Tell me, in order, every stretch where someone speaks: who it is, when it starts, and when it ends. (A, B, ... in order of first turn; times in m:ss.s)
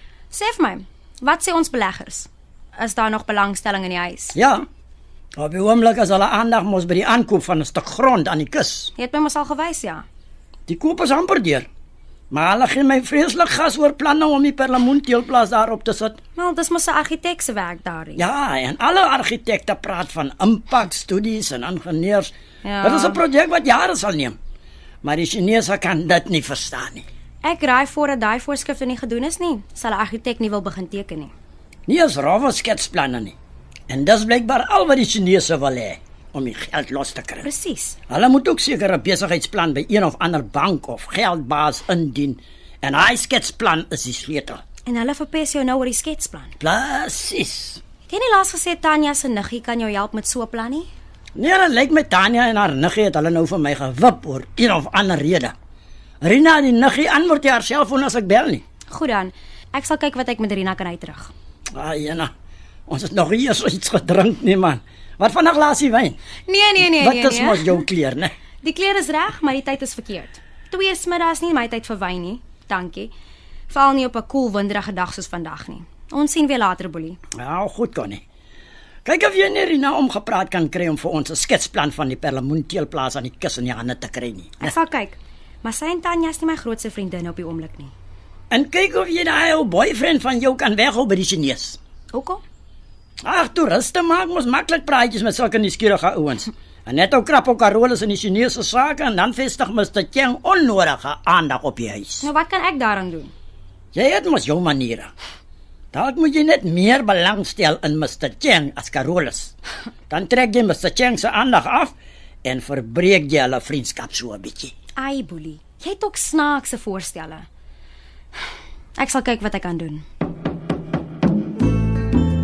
0:00.3-0:04.4 A
0:04.3-0:04.6 B
0:05.4-0:08.9 B
0:09.0-0:10.0 A
0:10.7-0:11.7 B
0:12.3-0:16.2 B
0:16.3-0:18.2 A
0:18.2-0:24.4 B
0:22.6-0:23.2 A
0:25.0-0:27.0 B
0:27.4-0:31.3 A
0:31.9-0:33.3 B
0:33.9-0:37.4 B
0:37.4-0:38.0 A
0:38.1-0:44.6 B
0:44.9-0:46.5 A
0:46.6-0:47.8 B
0:48.1-0:50.9 A
0:51.4-0:55.5 B
0:56.2-0:58.6 B
0:58.9-1:01.3 A
1:01.7-1:02.3 B
1:02.9-1:06.2 B
1:06.4-1:07.8 A
1:06.8-1:08.3 B
1:08.6-1:13.1 A
1:13.7-1:17.2 A
1:17.4-1:18.2 B
1:19.0-1:24.7 B
1:24.6-1:27.9 A
1:28.5-1:31.8 B
1:32.1-1:32.4 A
1:33.2-1:42.3 B
1:42.2-1:43.3 A
1:43.9-1:45.1 B
1:45.9-1:49.5 B
1:50.1-1:51.9 B
1:52.4-1:54.7 B
1:55.0-1:57.5 A
1:59.0-2:00.0 A